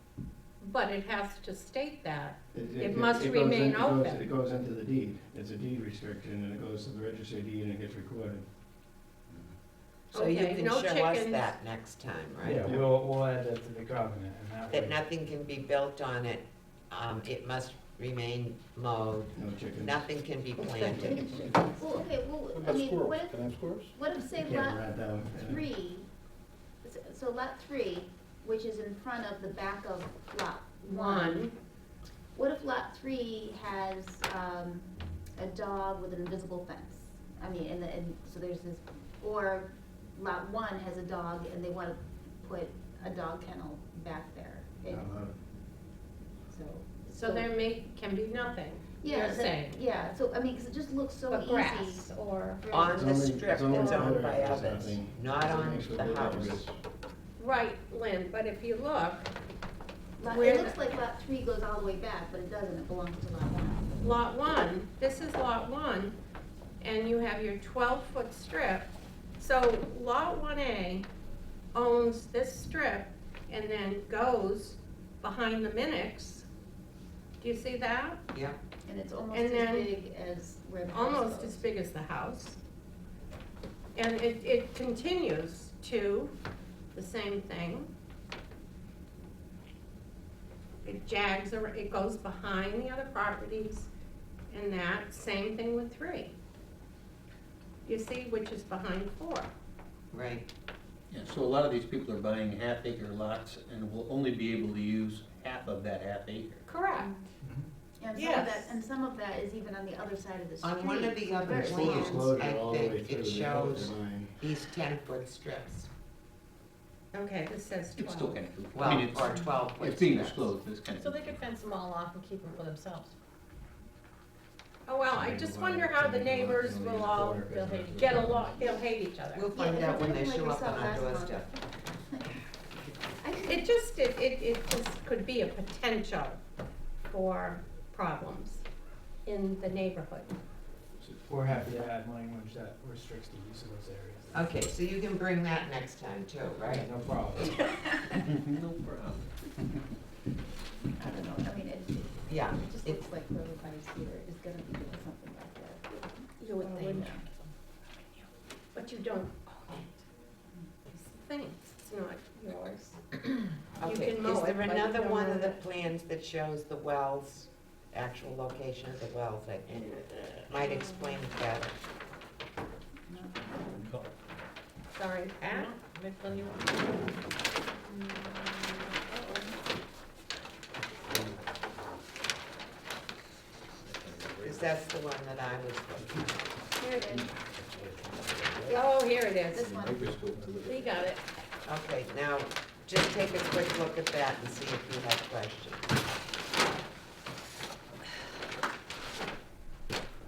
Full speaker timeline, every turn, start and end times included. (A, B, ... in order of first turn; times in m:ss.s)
0:00.6-0:04.2 A
0:02.5-0:08.4 B
0:10.1-0:11.6 A
0:10.1-0:12.7 C
0:12.4-0:15.0 D
0:14.7-0:21.3 C
0:19.3-0:20.1 B
0:20.8-0:26.1 E
0:21.1-0:21.4 F
0:22.5-0:23.9 F
0:24.4-0:25.6 B
0:26.8-0:31.5 E
0:30.8-0:31.5 A
0:32.4-0:45.1 E
0:44.9-0:45.3 B
0:46.5-0:47.5 E
0:47.1-0:49.8 A
0:49.0-0:53.2 E
0:51.3-0:52.9 A
0:52.7-0:56.6 C
0:52.9-0:56.7 B
0:53.8-0:54.2 A
0:57.4-0:59.3 A
1:00.2-1:03.9 E
1:00.3-1:00.8 A
1:04.0-1:06.1 A
1:06.8-1:11.1 A
1:11.7-1:16.5 A
1:17.4-1:18.2 A
1:18.3-1:18.6 C
1:18.9-1:21.7 E
1:19.3-1:19.9 A
1:20.9-1:22.6 A
1:24.0-1:26.3 A
1:26.9-1:27.9 A
1:30.8-1:33.9 A
1:34.5-1:36.4 A
1:37.8-1:39.5 A
1:40.1-1:40.5 C
1:41.1-1:46.6 F
1:46.7-1:47.1 A
1:47.0-1:47.3 E
1:48.0-1:52.4 E
1:48.2-1:48.8 A
1:50.6-1:55.9 C
1:51.4-1:54.4 B
1:57.1-1:58.5 A
1:58.0-2:01.5 F
1:58.7-2:00.5 C
2:01.1-2:03.1 G
2:04.9-2:09.5 A
2:05.1-2:08.6 B
2:07.5-2:07.9 G
2:09.4-2:11.5 C
2:09.5-2:12.4 E
2:13.2-2:13.7 E
2:13.5-2:16.4 A
2:17.1-2:18.6 A
2:19.2-2:20.4 A
2:21.0-2:24.5 D
2:24.3-2:28.0 C
2:26.6-2:27.6 D
2:28.3-2:29.3 F
2:31.0-2:37.3 E
2:32.3-2:33.0 C
2:36.4-2:37.3 A
2:38.0-2:40.0 A
2:40.9-2:43.3 A
2:43.8-2:51.8 C
2:43.8-2:45.6 A
2:49.9-2:51.2 A
2:53.1-2:53.9 E
2:54.9-2:55.7 A
2:55.6-2:56.7 G
2:58.0-2:59.5 E
3:03.9-3:04.7 F
3:04.4-3:06.2 C
3:06.8-3:07.1 A
3:06.8-3:07.3 E
3:07.8-3:08.3 F
3:08.5-3:10.8 E
3:08.7-3:09.7 A
3:09.6-3:10.9 F
3:10.6-3:11.2 A
3:11.7-3:15.9 C